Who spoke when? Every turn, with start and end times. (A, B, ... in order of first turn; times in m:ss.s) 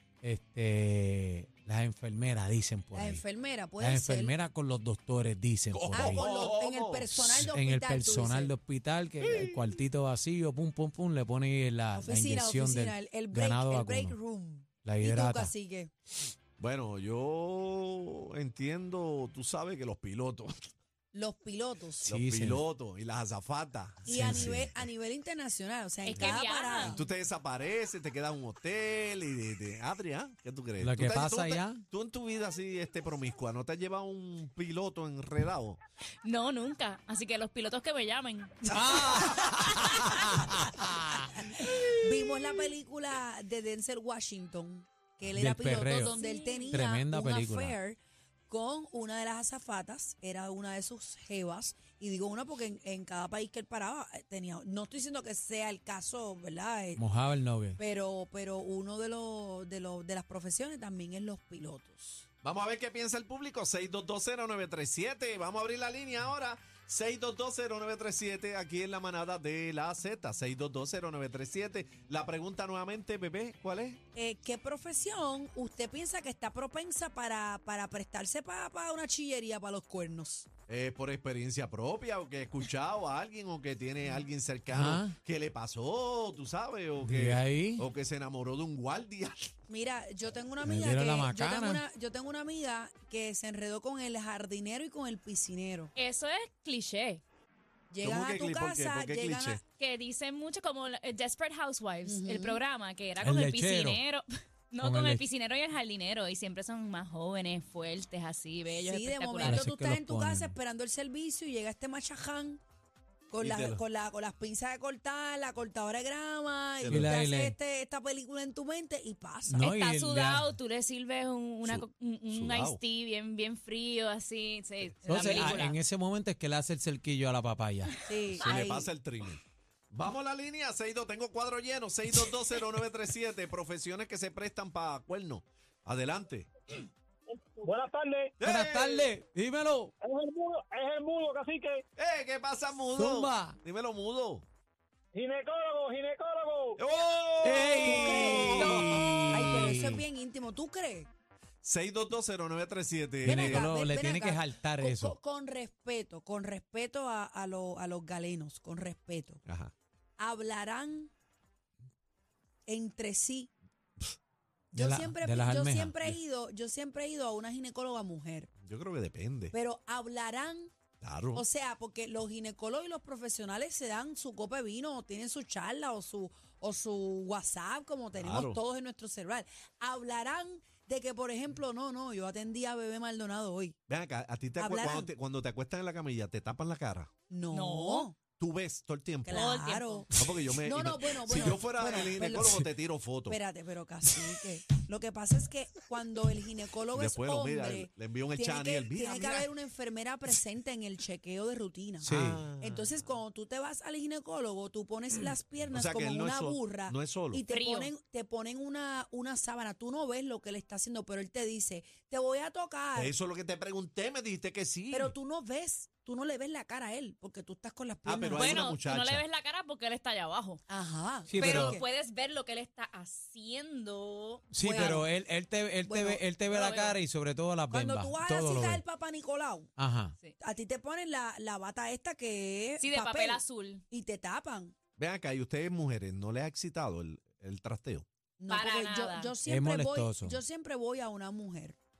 0:00.2-0:03.2 A
0:02.9-0:04.3 B
0:03.8-0:06.3 A
0:05.7-0:07.4 C
0:05.9-0:08.5 B
0:07.2-0:14.2 A
0:09.2-0:09.6 C
0:11.9-0:15.9 B
0:14.8-0:15.5 A
0:16.6-0:20.7 C
0:21.1-0:22.0 B
0:22.0-0:22.6 A
0:22.0-0:24.8 C
0:24.1-0:27.0 B
0:24.1-0:24.7 A
0:26.0-0:27.0 D
0:26.1-0:35.8 C
0:30.8-0:31.8 A
0:36.2-0:38.6 D
0:38.6-0:41.8 A
0:42.0-0:48.0 B
0:45.2-0:46.1 A
0:45.9-0:46.8 D
0:46.7-0:47.8 A
0:48.5-0:57.0 B
0:57.0-0:57.8 A
0:57.8-1:02.2 B
1:02.4-1:14.0 C
1:14.2-1:20.5 B
1:20.7-1:29.5 C
1:24.7-1:25.2 A
1:27.0-1:27.8 A
1:29.7-1:35.9 B
1:30.6-1:31.8 A
1:36.0-1:37.2 D
1:37.9-1:39.6 B
1:38.0-1:39.6 C
1:39.8-1:49.7 D
1:42.0-1:42.6 B
1:43.2-1:44.0 A
1:44.8-1:45.2 A
1:48.8-1:52.6 B
1:49.4-1:50.6 A
1:53.3-1:59.7 B
1:53.4-1:53.8 C
1:56.8-1:57.1 C
1:56.9-1:57.6 A
1:59.5-2:05.8 D
1:59.5-2:00.5 A
2:01.6-2:02.8 C
2:05.0-2:08.0 A
2:05.1-2:05.5 C
2:08.0-2:08.9 B
2:08.4-2:16.5 C
2:17.4-2:18.3 E
2:18.4-2:19.1 C
2:18.4-2:19.9 A
2:20.0-2:21.8 E
2:22.0-2:24.4 C
2:23.0-2:23.6 A
2:25.1-2:26.8 E
2:26.8-2:29.2 C
2:27.4-2:30.0 A
2:27.8-2:31.1 B
2:31.6-2:33.7 C
2:33.2-2:35.2 A
2:33.2-2:39.4 B
2:39.5-2:39.7 C
2:40.2-2:41.1 B
2:42.7-2:43.5 B
2:44.7-2:46.2 A
2:44.7-2:48.5 B
2:48.6-2:49.5 C
2:49.5-2:50.7 B
2:51.0-2:51.4 C
2:51.3-3:03.8 B
2:58.2-2:58.6 C
3:03.9-3:07.1 C
3:04.6-3:05.1 B
3:07.3-3:08.2 B
3:07.5-3:08.1 D
3:08.4-3:09.4 C
3:09.2-3:12.7 B
3:09.3-3:10.0 D
3:10.1-3:13.4 C
3:13.3-3:22.1 B
3:16.9-3:19.5 C
3:22.0-3:22.4 A
3:22.0-3:23.2 C
3:22.6-3:33.1 B
3:25.7-3:27.4 C
3:27.5-3:27.9 D
3:32.9-3:35.1 C
3:34.9-3:38.6 B
3:38.0-3:39.2 C
3:38.3-3:40.6 D
3:40.7-3:41.8 B
3:41.3-3:41.8 A
3:41.4-3:44.9 D
3:44.5-3:48.8 A
3:44.6-3:45.1 B
3:45.8-3:46.2 B
3:46.5-3:47.0 D
3:47.7-3:49.7 B
3:49.8-3:50.1 A
3:50.4-3:54.7 B
3:52.8-3:53.8 D
3:55.0-3:58.0 C
3:58.4-4:01.8 B
3:58.5-3:59.4 D
3:59.4-4:00.4 A